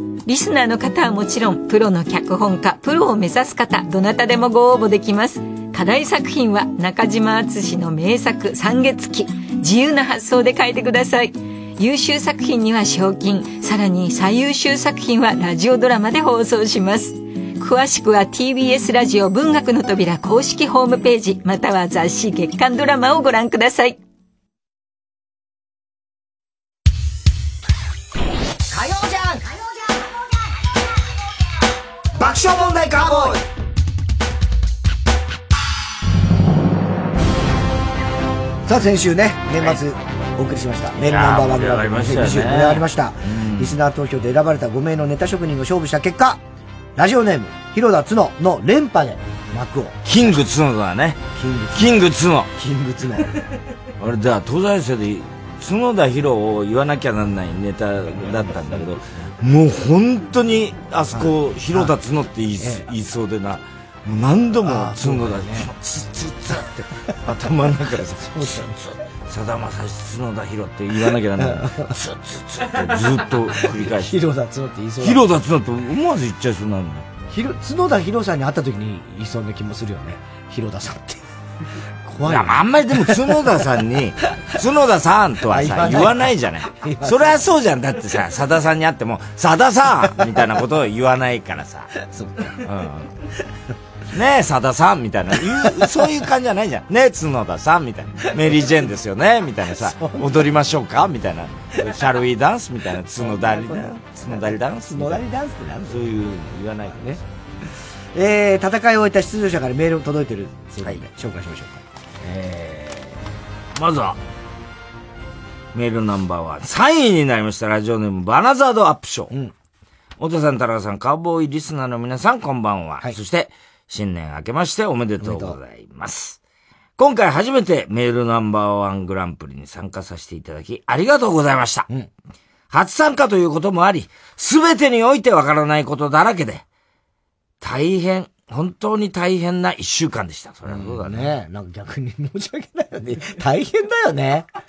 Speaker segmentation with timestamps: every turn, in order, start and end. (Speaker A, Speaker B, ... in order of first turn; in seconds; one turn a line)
Speaker A: 0.2-24.0
Speaker B: 28.7-29.5
Speaker B: 32.1-33.4
Speaker B: 38.7-46.4
Speaker C: 41.0-43.8
Speaker B: 47.0-50.3
Speaker C: 50.0-51.2
Speaker B: 51.3-53.3
Speaker C: 51.7-52.5
Speaker C: 54.0-74.2
Speaker B: 61.1-61.9
Speaker B: 62.6-62.8
Speaker B: 64.6-65.7
Speaker B: 68.2-68.8
Speaker B: 71.4-71.9
Speaker B: 73.6-75.2
Speaker C: 75.0-77.1
Speaker B: 77.3-81.2
Speaker B: 82.0-83.2
Speaker C: 82.2-91.9
Speaker B: 85.5-87.4
Speaker B: 92.0-92.6
Speaker C: 92.6-93.1
Speaker C: 94.1-105.2
Speaker B: 99.9-100.3
Speaker B: 103.2-106.0
Speaker C: 105.9-107.2
Speaker B: 108.1-113.1
Speaker C: 113.7-114.2
Speaker C: 115.7-119.3
Speaker C: 120.2-126.4
Speaker B: 125.2-125.6
Speaker C: 127.0-131.9
Speaker C: 132.7-136.6
Speaker C: 137.6-141.3
Speaker B: 140.7-144.5